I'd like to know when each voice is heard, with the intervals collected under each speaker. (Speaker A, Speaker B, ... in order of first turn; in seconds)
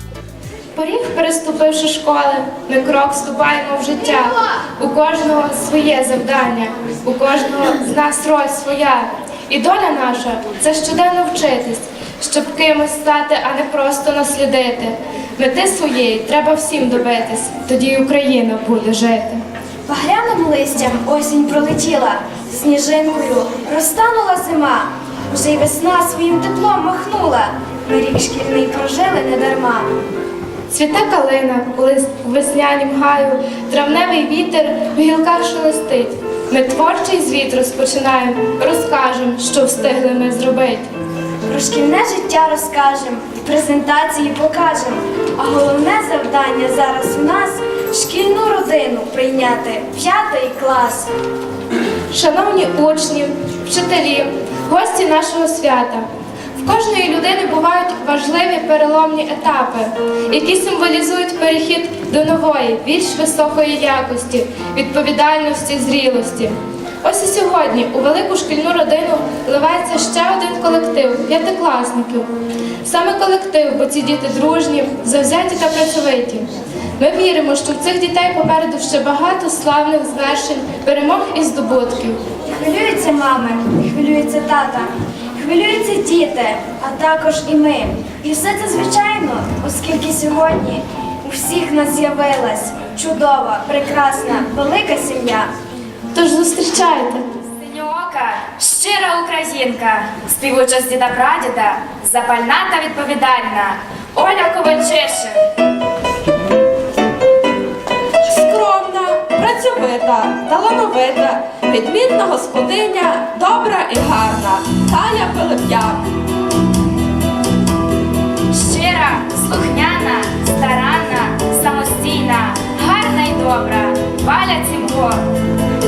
Speaker A: 0.7-19.4, 30.7-40.9, 52.1-72.3, 72.8-82.2, 96.1-97.2
Speaker B: 19.9-29.9, 41.5-51.1, 82.5-95.5
Speaker C: 97.6-105.4, 118.5-125.2
Speaker D: 108.3-116.0